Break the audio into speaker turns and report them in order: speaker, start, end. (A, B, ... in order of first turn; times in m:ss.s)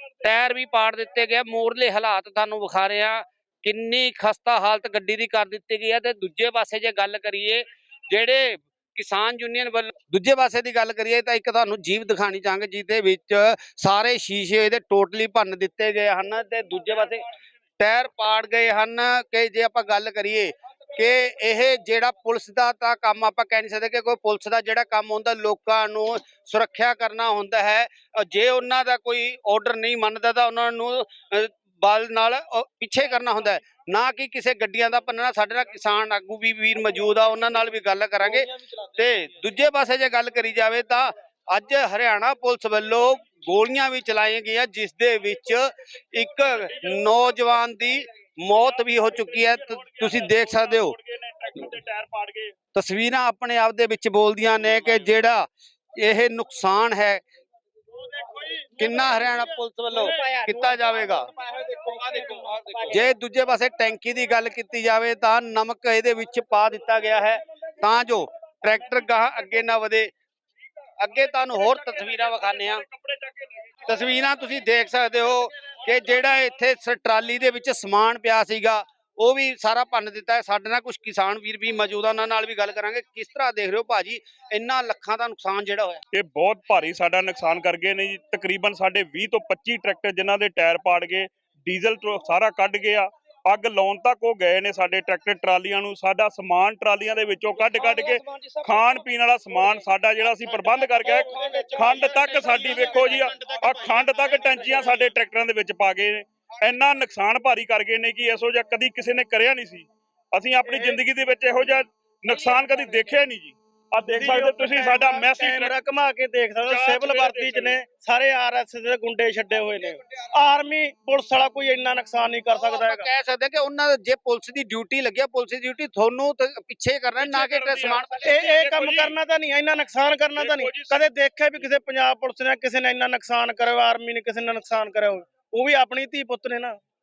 0:00.2-0:17.2 A
0:17.8-0:50.9 A
0:49.3-0:52.5 B
0:52.7-0:55.4 A
0:56.0-0:57.2 A
0:58.8-1:01.3 A
1:02.8-1:10.1 A
1:11.0-1:12.8 A
1:12.8-1:13.3 B
1:13.9-1:26.0 A
1:26.1-1:55.7 B
1:54.1-2:03.1 C
1:56.6-1:57.8 B
2:02.5-2:08.3 A
2:07.2-2:09.2 B
2:08.3-2:16.8 C
2:10.4-2:11.0 B